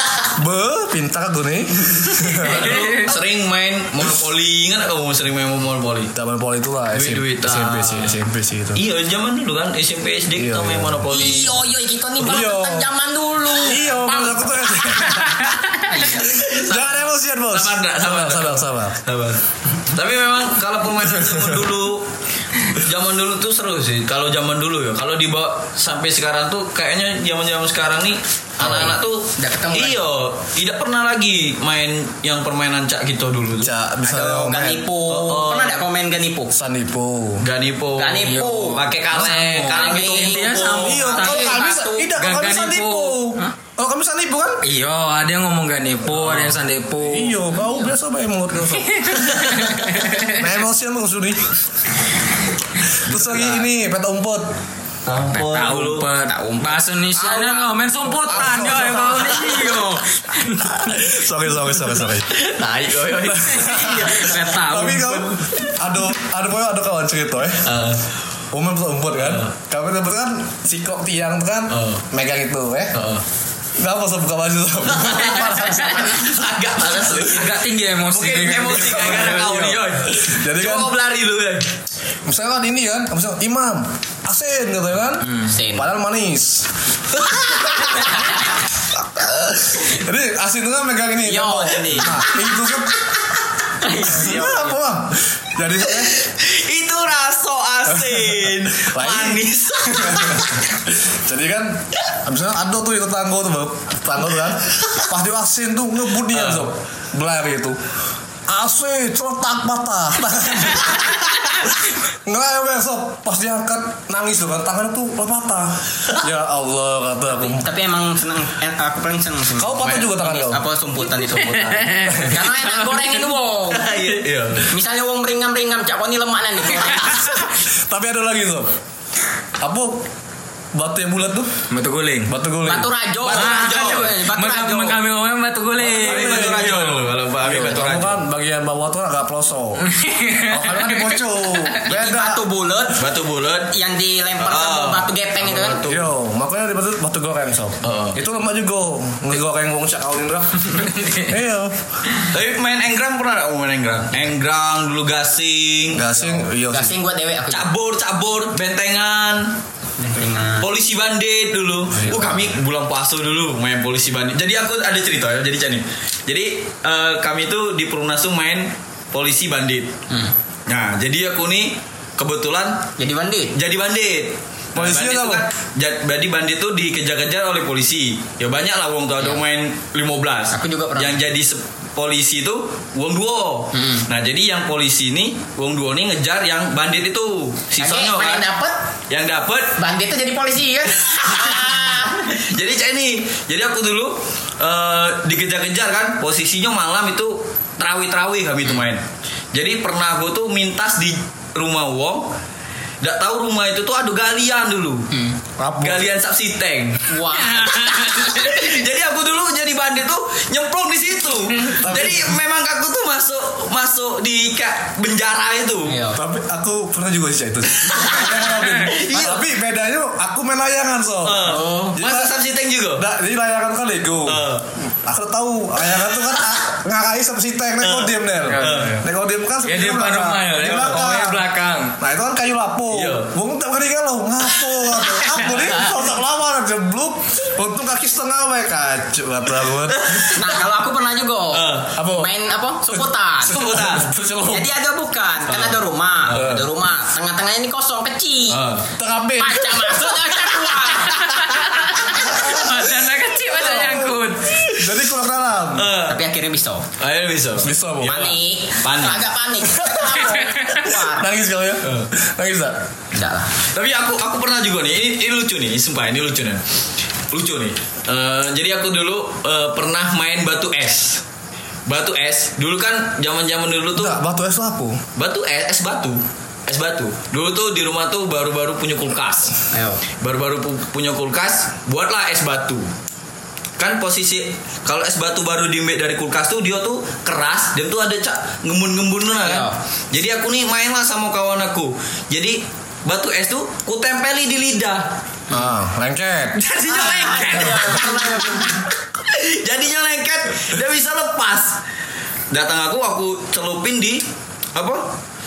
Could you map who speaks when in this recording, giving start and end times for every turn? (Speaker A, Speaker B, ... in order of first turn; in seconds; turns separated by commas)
Speaker A: 0.3-2.7, Speaker B: 2.4-6.1, Speaker C: 2.6-3.0, Speaker A: 6.1-8.8, Speaker B: 6.9-8.2, Speaker B: 8.7-11.6, Speaker A: 10.3-11.3, Speaker D: 11.1-16.5, Speaker A: 12.2-12.9, Speaker A: 13.5-15.5, Speaker A: 16.1-19.0, Speaker B: 16.2-22.1, Speaker A: 21.0-21.6, Speaker B: 22.7-33.7, Speaker D: 28.6-30.0, Speaker A: 33.6-34.9, Speaker D: 34.0-36.5, Speaker B: 35.1-35.9, Speaker A: 36.5-37.5, Speaker B: 37.4-41.3, Speaker D: 38.0-38.8, Speaker C: 38.2-41.5, Speaker A: 39.1-39.7, Speaker D: 39.7-42.1, Speaker A: 40.8-44.6, Speaker C: 42.1-43.2, Speaker C: 44.6-47.4, Speaker A: 47.0-51.6, Speaker C: 48.8-50.3, Speaker A: 53.0-54.5, Speaker B: 53.1-53.6, Speaker B: 55.0-56.1, Speaker C: 55.1-60.3, Speaker D: 56.2-57.7, Speaker A: 58.2-59.2, Speaker D: 58.3-60.0, Speaker B: 58.6-59.9, Speaker A: 60.6-62.3, Speaker B: 61.7-64.1, Speaker A: 63.3-67.7, Speaker D: 63.6-65.0, Speaker C: 64.2-65.3, Speaker B: 67.6-68.1, Speaker A: 68.5-73.0, Speaker B: 69.2-69.5, Speaker B: 71.7-72.0, Speaker B: 72.9-73.2, Speaker A: 73.8-76.4, Speaker B: 74.9-81.7, Speaker C: 77.1-79.7, Speaker A: 78.7-80.9, Speaker A: 82.2-86.7, Speaker D: 85.4-85.9, Speaker A: 87.4-88.1, Speaker A: 89.1-93.1, Speaker D: 91.2-92.3, Speaker D: 93.8-94.8, Speaker A: 93.9-96.1, Speaker B: 95.9-100.7, Speaker A: 97.9-99.4, Speaker A: 100.0-107.8, Speaker B: 106.3-106.7, Speaker A: 108.5-117.7, Speaker D: 117.4-127.5, Speaker A: 119.5-120.6, Speaker B: 119.8-120.1, Speaker C: 121.5-123.3, Speaker A: 122.1-122.3, Speaker B: 123.7-124.7, Speaker A: 127.2-128.7, Speaker A: 129.6-130.1, Speaker A: 130.7-131.6, Speaker C: 131.7-132.3, Speaker A: 132.3-132.9, Speaker D: 132.6-135.0, Speaker B: 133.2-134.0, Speaker C: 133.2-137.0, Speaker B: 135.8-138.2, Speaker A: 135.9-139.8, Speaker C: 139.8-141.2, Speaker A: 140.4-142.4, Speaker D: 141.8-143.1, Speaker B: 142.9-143.7, Speaker D: 143.7-145.8, Speaker B: 144.4-146.0, Speaker A: 145.8-151.8, Speaker B: 147.8-148.2, Speaker B: 152.2-156.1, Speaker A: 155.9-157.0, Speaker D: 156.3-157.7, Speaker B: 157.5-159.6, Speaker D: 160.0-160.7, Speaker B: 160.6-169.9, Speaker A: 161.9-162.5, Speaker B: 170.7-172.9, Speaker D: 173.0-173.5, Speaker B: 173.5-188.5, Speaker A: 174.7-175.4, Speaker D: 180.5-181.2, Speaker D: 183.7-184.1, Speaker D: 187.8-188.8, Speaker B: 189.1-189.8, Speaker D: 189.8-192.4, Speaker B: 192.3-202.3, Speaker B: 203.0-205.1, Speaker D: 205.1-205.4, Speaker A: 205.6-206.1, Speaker B: 205.8-207.1, Speaker D: 207.1-208.5, Speaker C: 207.5-208.5, Speaker B: 207.8-216.0, Speaker A: 211.8-212.4, Speaker D: 215.8-216.2, Speaker A: 216.1-222.4, Speaker B: 217.8-219.4, Speaker B: 221.2-223.0, Speaker D: 221.4-222.0, Speaker A: 223.0-240.3, Speaker B: 224.2-224.7, Speaker B: 226.2-226.6, Speaker B: 227.8-229.0, Speaker C: 228.4-229.0, Speaker C: 229.6-231.9, Speaker B: 232.9-233.3, Speaker B: 239.9-240.5, Speaker D: 240.3-243.6, Speaker B: 241.5-241.9, Speaker A: 241.9-242.3, Speaker A: 242.9-244.7, Speaker B: 243.5-244.1, Speaker D: 244.5-248.6, Speaker B: 245.5-245.8, Speaker A: 246.3-246.6, Speaker B: 248.5-248.9, Speaker A: 249.0-250.1, Speaker D: 249.4-251.8, Speaker C: 251.1-254.6, Speaker A: 252.0-255.9, Speaker B: 255.7-256.2, Speaker D: 256.0-256.9, Speaker B: 257.0-259.3, Speaker A: 257.6-258.4, Speaker D: 258.0-261.3, Speaker A: 259.7-262.8, Speaker D: 263.1-263.5, Speaker B: 263.7-266.6, Speaker B: 267.3-271.2, Speaker B: 271.9-274.2, Speaker A: 273.9-275.0, Speaker B: 275.1-279.6, Speaker D: 279.7-280.0, Speaker B: 280.1-282.9, Speaker B: 283.8-295.1, Speaker D: 289.4-289.7, Speaker A: 295.5-296.6, Speaker C: 296.6-298.3, Speaker B: 296.7-298.1, Speaker D: 296.9-298.8, Speaker B: 299.2-301.8, Speaker B: 302.5-304.2, Speaker B: 304.7-305.0